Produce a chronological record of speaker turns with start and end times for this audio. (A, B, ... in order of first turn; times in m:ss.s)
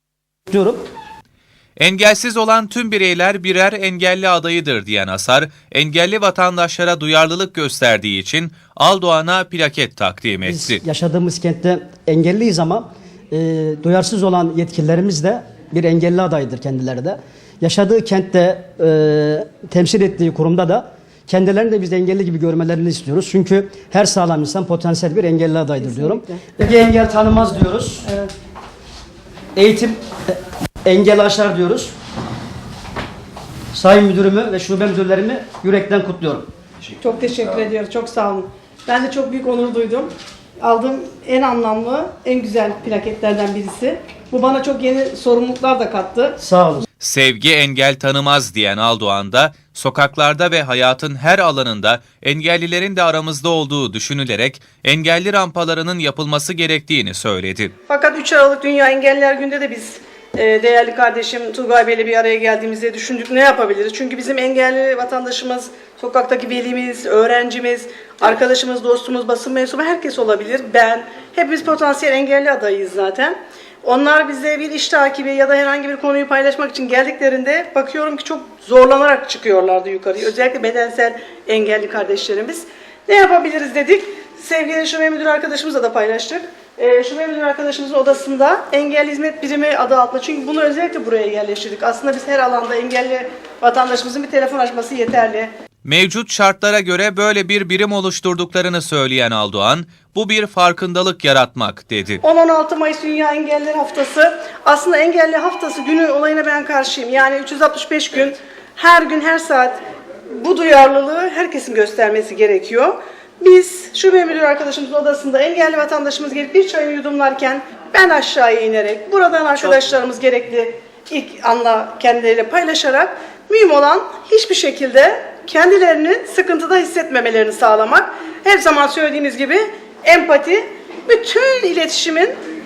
0:00.5-0:00.8 A
0:01.8-0:10.8 B
0:10.4-0:28.1 A
0:25.8-0:26.5 C
0:28.0-0:28.3 C
0:29.6-0:31.9 A
0:33.7-0:36.5 A
0:37.0-0:46.4 C
0:46.4-0:46.8 A
0:47.0-0:57.7 B
0:57.9-1:35.5 C
1:35.8-1:42.2 B
1:42.2-1:49.8 C
1:50.4-2:12.3 C